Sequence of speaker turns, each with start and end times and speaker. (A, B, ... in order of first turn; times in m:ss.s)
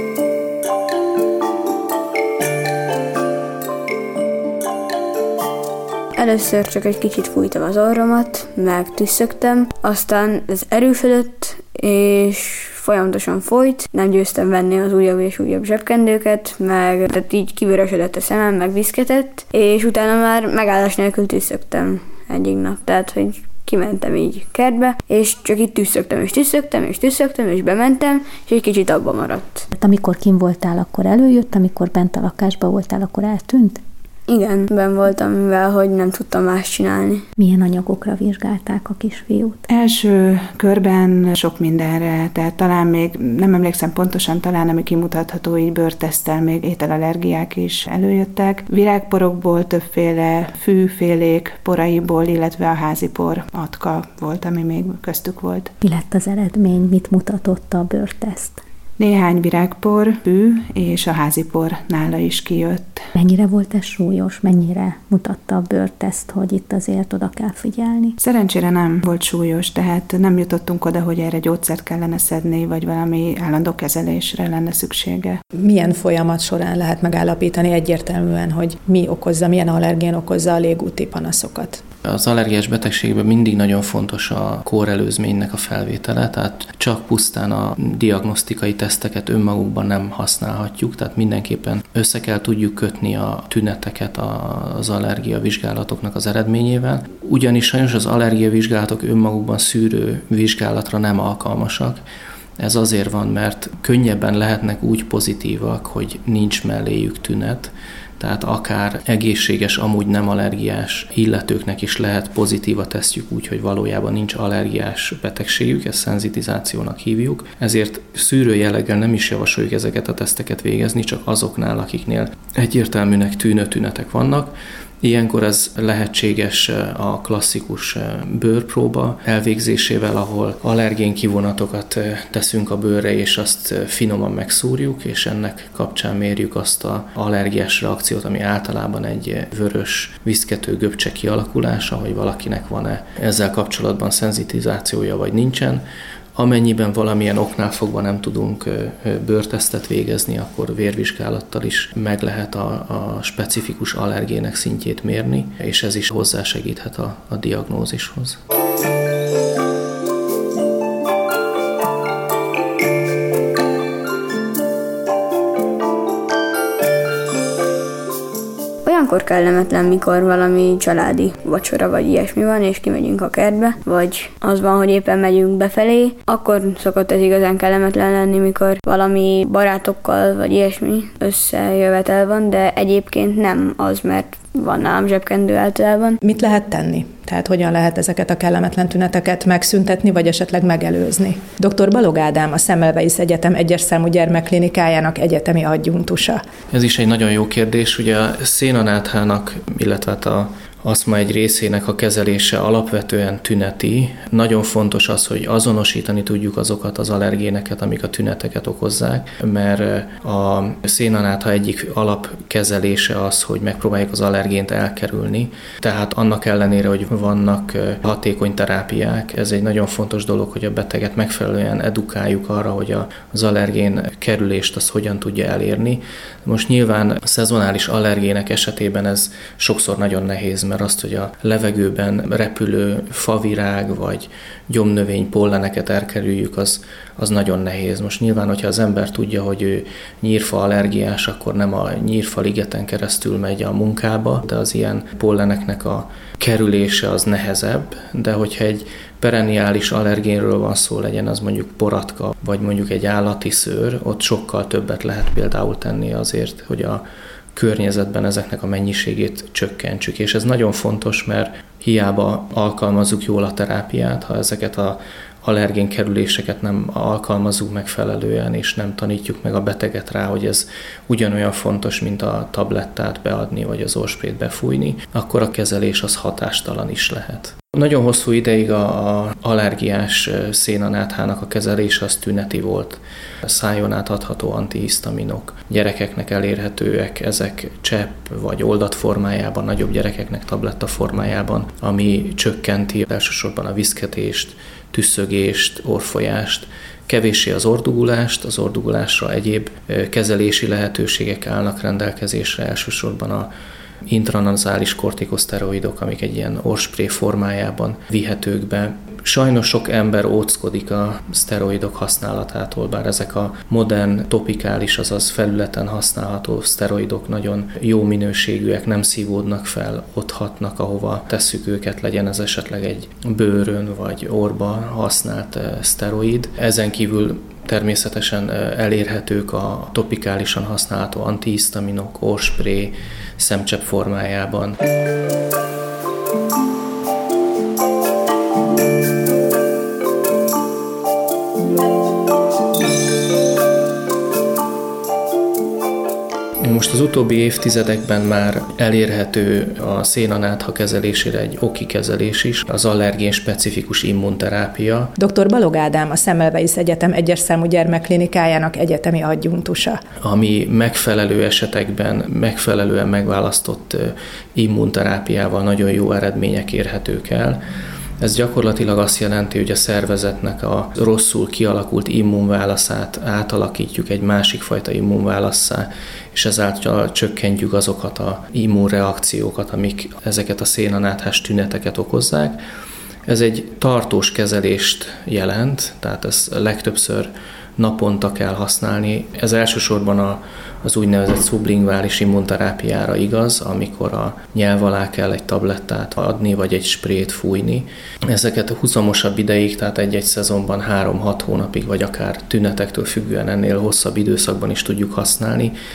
0:06.2-0:29.7 A
0:29.7-0:33.8 B
0:34.3-0:37.2 A
0:37.4-0:39.6 B
0:39.7-0:55.7 C
0:55.8-0:58.6 B
0:59.0-1:03.0 C
1:03.2-1:08.2 B
1:08.2-1:15.4 C
1:15.6-1:21.8 D
1:22.0-1:42.0 E
1:42.6-2:25.8 E
2:26.4-2:38.4 E
2:48.8-3:06.2 A
3:06.2-3:16.4 D
3:16.7-4:17.0 E
4:17.5-5:03.5 E
5:04.1-5:34.8 E
5:46.6-5:55.1 E
5:55.2-6:00.0 D
6:00.2-6:07.6 E
6:08.2-6:22.6 E
6:23.3-6:45.7 E